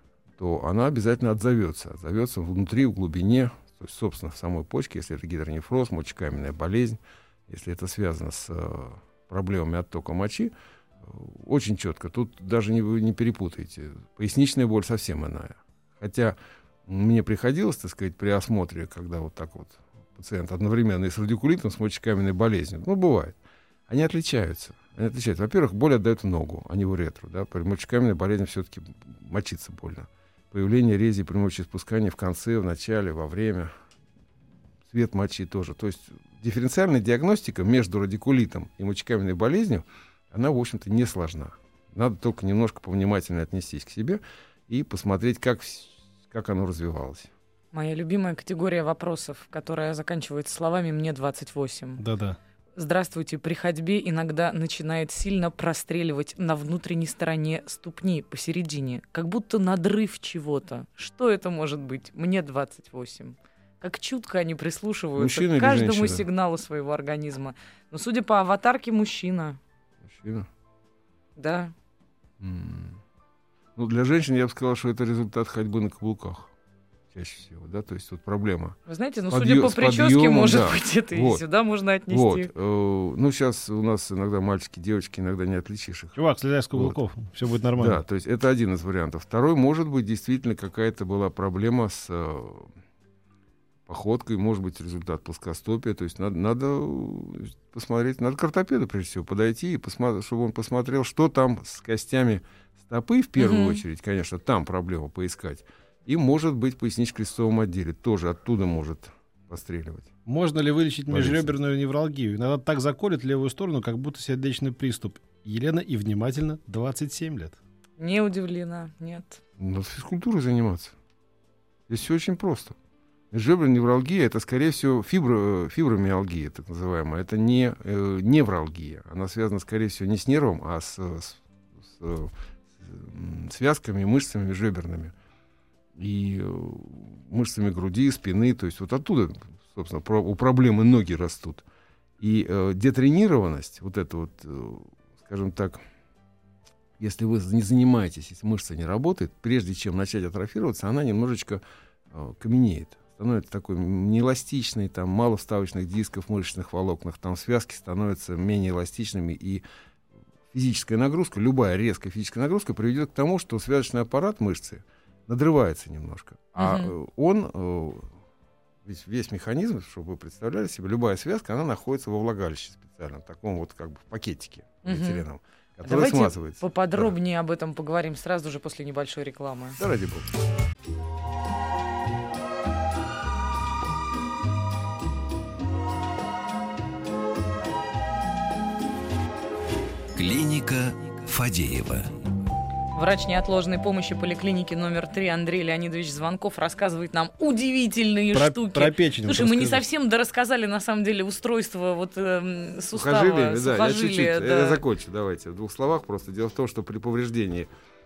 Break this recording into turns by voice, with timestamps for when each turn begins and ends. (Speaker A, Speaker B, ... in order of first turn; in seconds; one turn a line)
Speaker A: 0.4-33.7
Speaker A: 34.9-47.3
Speaker B: 47.7-52.0
Speaker C: 52.0-52.4
Speaker B: 52.8-69.6
Speaker A: 65.2-66.2
Speaker A: 70.0-70.5
Speaker B: 71.4-71.7
Speaker A: 72.4-73.0
Speaker A: 73.8-76.5
Speaker A: 77.1-78.8
Speaker B: 78.9-82.5
Speaker A: 79.3-81.4
Speaker A: 82.1-86.2
Speaker C: 86.2-88.0
Speaker A: 87.8-92.7
Speaker A: 93.9-110.1
Speaker B: 103.4-103.8
Speaker C: 110.3-117.6
Speaker A: 111.1-111.5
Speaker B: 118.0-119.4
Speaker A: 119.6-121.0
Speaker A: 121.9-122.8
Speaker A: 123.3-135.1
Speaker A: 136.0-141.6
Speaker A: 142.2-145.8
Speaker A: 147.0-159.6
Speaker A: 160.5-168.1
Speaker B: 166.6-166.9
Speaker A: 168.8-177.1
Speaker B: 174.8-175.2
Speaker B: 175.8-179.8
Speaker A: 179.8-180.3
Speaker D: 190.2-192.3
Speaker B: 192.9-204.8
Speaker C: 198.3-199.8
Speaker A: 202.9-207.7